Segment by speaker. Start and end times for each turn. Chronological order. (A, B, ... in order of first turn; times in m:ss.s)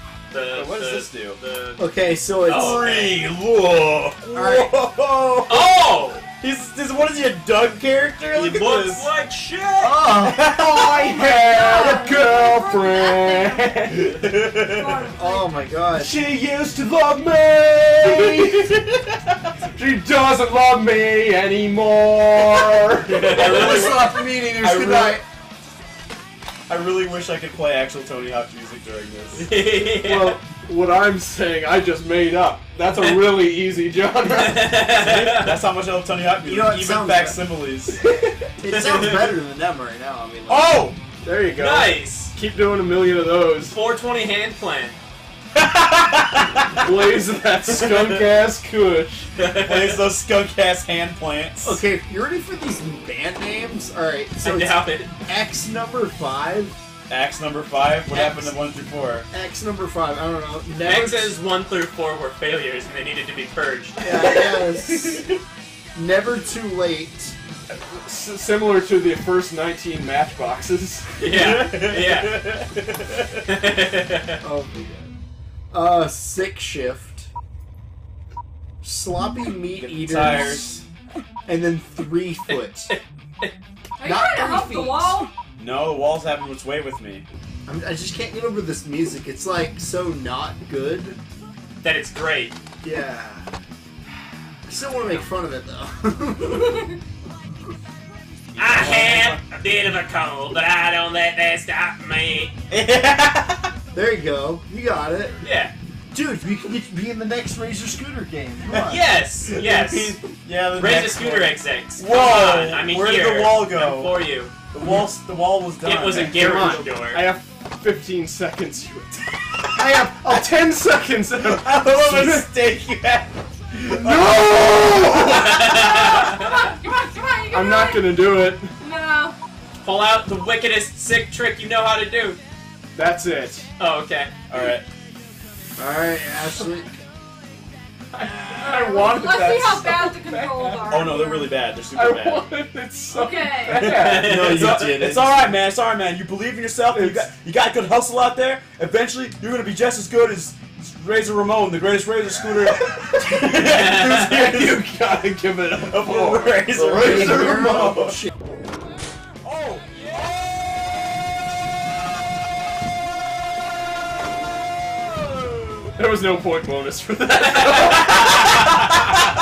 0:00.3-0:03.2 A
0:00.5-0:01.4 B
0:01.8-0:02.9 C
0:02.5-0:05.7 B
0:04.3-0:04.8 C
0:05.5-0:06.2 A
0:06.2-0:09.1 B
0:08.3-0:10.2 A
0:09.8-0:10.5 C
0:10.2-0:11.2 B
0:10.6-0:14.1 D
0:11.3-0:15.6 E
0:13.9-0:15.1 B
0:15.2-0:16.2 C
0:16.0-0:18.8 D
0:18.1-0:18.3 C
0:19.7-0:23.3 D
0:23.1-0:24.1 A
0:23.1-0:25.2 B
0:23.3-0:25.2 C
0:26.7-0:29.5 B
0:29.4-0:30.4 A
0:30.1-0:34.7 D
0:33.0-0:33.3 A
0:34.2-0:35.6 A
0:34.9-0:38.0 B
0:36.5-0:37.4 C
0:38.0-0:38.5 D
0:38.6-0:40.9 C
0:38.7-0:39.4 A
0:40.5-0:41.0 B
0:41.2-0:43.8 D
0:41.5-0:42.4 A
0:43.7-0:45.0 A
0:45.5-0:47.0 B
0:46.8-0:49.3 D
0:47.7-0:48.2 A
0:49.4-0:50.0 A
0:49.6-0:51.8 B
0:51.6-0:56.8 C
0:54.4-0:55.1 A
0:57.1-0:59.3 B
0:58.1-0:58.4 A
0:59.3-1:01.4 C
1:00.8-1:04.5 A
1:04.0-1:05.2 C
1:04.9-1:05.4 B
1:05.9-1:07.4 C
1:07.8-1:11.1 D
1:11.2-1:12.4 A
1:11.2-1:13.5 B
1:13.5-1:14.3 A
1:14.4-1:15.1 C
1:15.7-1:17.3 C
1:18.8-1:20.8 C
1:19.8-1:20.8 B
1:21.5-1:22.9 C
1:22.5-1:23.5 A
1:24.0-1:25.3 E
1:24.0-1:25.2 C
1:25.6-1:27.2 B
1:27.7-1:31.2 C
1:31.8-1:32.6 A
1:32.8-1:33.5 C
1:34.7-1:36.9 C
1:38.6-1:39.4 B
1:38.6-1:42.5 A
1:42.7-1:43.7 B
1:43.9-1:45.4 C
1:45.4-1:45.7 A
1:46.1-1:49.0 C
1:48.7-1:54.2 B
1:48.9-1:54.5 A
1:54.7-1:56.8 B
1:55.8-1:57.3 A
1:56.1-1:56.8 C
1:56.5-2:02.5 D
1:59.8-2:00.5 C
2:01.4-2:05.1 B
2:03.9-2:05.8 D
2:05.3-2:06.5 A
2:06.3-2:08.2 E
2:07.5-2:08.7 D
2:08.8-2:09.4 E
2:09.8-2:12.4 A
2:12.9-2:13.7 D
2:13.8-2:14.3 A
2:14.5-2:14.9 B
2:15.8-2:16.9 C
2:18.1-2:20.9 D
2:18.6-2:21.6 E
2:20.9-2:22.5 B
2:21.9-2:24.4 D
2:23.1-2:24.0 E
2:23.7-2:34.8 B
2:23.8-2:25.0 A
2:24.1-2:25.5 C
2:26.9-2:27.2 D
2:33.6-2:34.4 A
2:34.3-2:38.0 D
2:35.8-2:38.2 B
2:37.0-2:38.3 C
2:39.4-2:41.2 B
2:45.3-2:45.9 B
2:46.0-2:48.4 D
2:47.6-2:48.5 A